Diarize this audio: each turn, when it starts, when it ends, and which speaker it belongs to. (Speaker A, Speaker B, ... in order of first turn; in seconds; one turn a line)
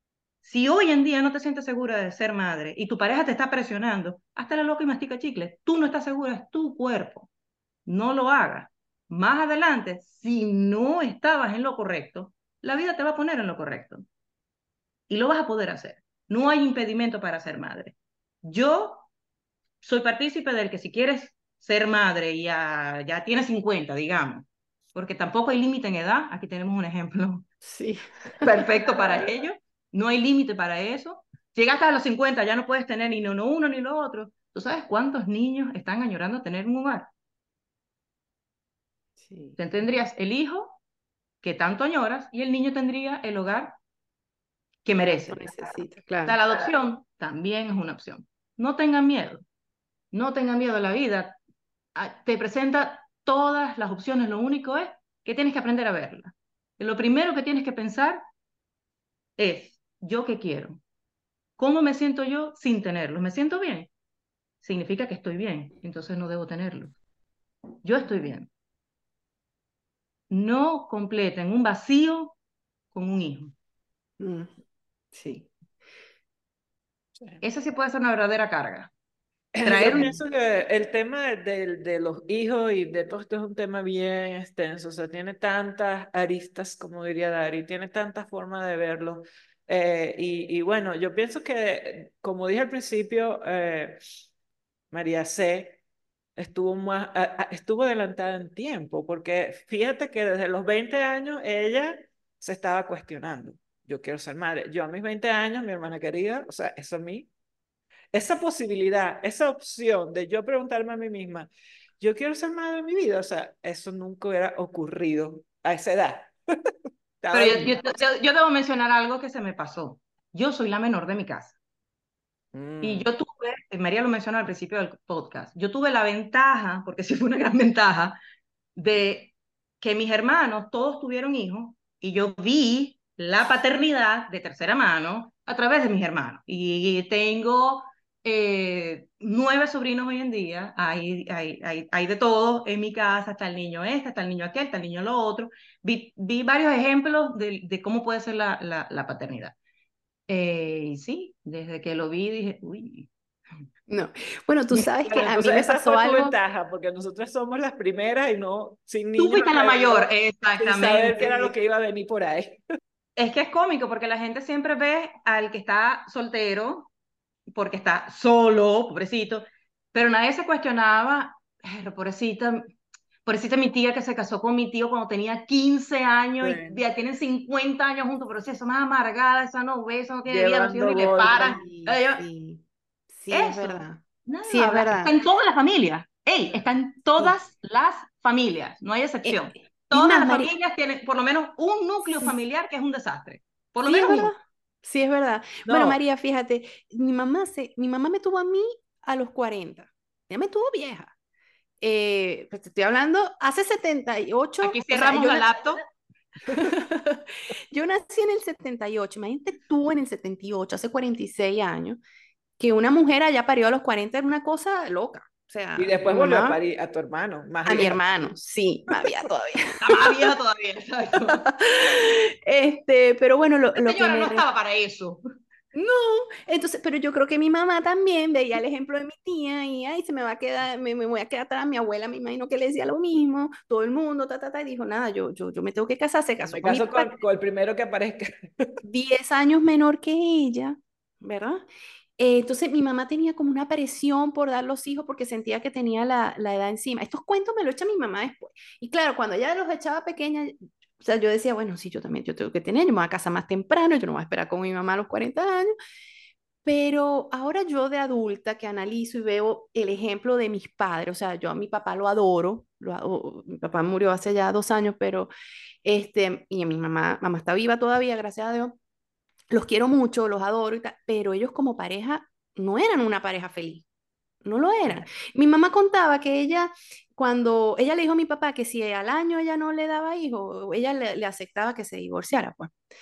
Speaker A: 0.4-7.3
Speaker A: 7.8-14.0
Speaker A: 15.1-19.1
Speaker A: 19.8-27.5
Speaker B: 27.6-28.4
Speaker A: 28.4-37.1
Speaker B: 39.2-39.6
Speaker A: 39.6-40.8
Speaker A: 41.4-43.8
Speaker A: 44.8-49.4
Speaker B: 45.3-46.4
Speaker A: 50.1-51.4
Speaker A: 51.9-58.2
Speaker A: 59.4-60.8
Speaker A: 61.6-63.9
Speaker A: 64.6-66.9
Speaker A: 67.8-68.5
Speaker A: 70.3-72.3
Speaker A: 72.9-73.5
Speaker B: 74.2-74.5
Speaker B: 75.1-75.5
Speaker A: 77.4-78.9
Speaker C: 79.5-94.0
Speaker A: 79.6-80.2
Speaker C: 94.9-95.8
Speaker C: 96.4-107.3
Speaker C: 108.1-116.3
Speaker C: 117.2-118.0
Speaker A: 117.3-121.6
Speaker C: 122.5-123.1
Speaker A: 122.8-128.2
Speaker A: 128.8-149.5
Speaker A: 150.3-153.1
Speaker B: 153.9-156.3
Speaker C: 155.1-162.6
Speaker A: 159.2-161.5
Speaker A: 163.2-166.9
Speaker A: 167.5-172.7
Speaker A: 173.2-182.2
Speaker C: 176.4-176.8
Speaker C: 180.2-181.6
Speaker B: 181.2-182.6
Speaker B: 183.1-185.1
Speaker A: 183.3-194.3
Speaker B: 189.2-190.5
Speaker B: 192.0-192.3
Speaker B: 193.8-201.1
Speaker C: 195.6-196.0
Speaker B: 201.8-205.5
Speaker A: 204.6-205.8
Speaker B: 206.4-212.0
Speaker B: 212.6-216.6
Speaker C: 215.8-218.3
Speaker B: 217.7-220.3
Speaker A: 219.8-221.4
Speaker B: 221.3-224.4
Speaker A: 223.8-225.2
Speaker B: 225.7-237.2
Speaker C: 236.4-238.8
Speaker B: 238.8-241.6
Speaker B: 242.2-255.7
Speaker B: 256.6-265.3
Speaker B: 265.8-268.8
Speaker B: 269.5-273.8
Speaker B: 274.4-282.7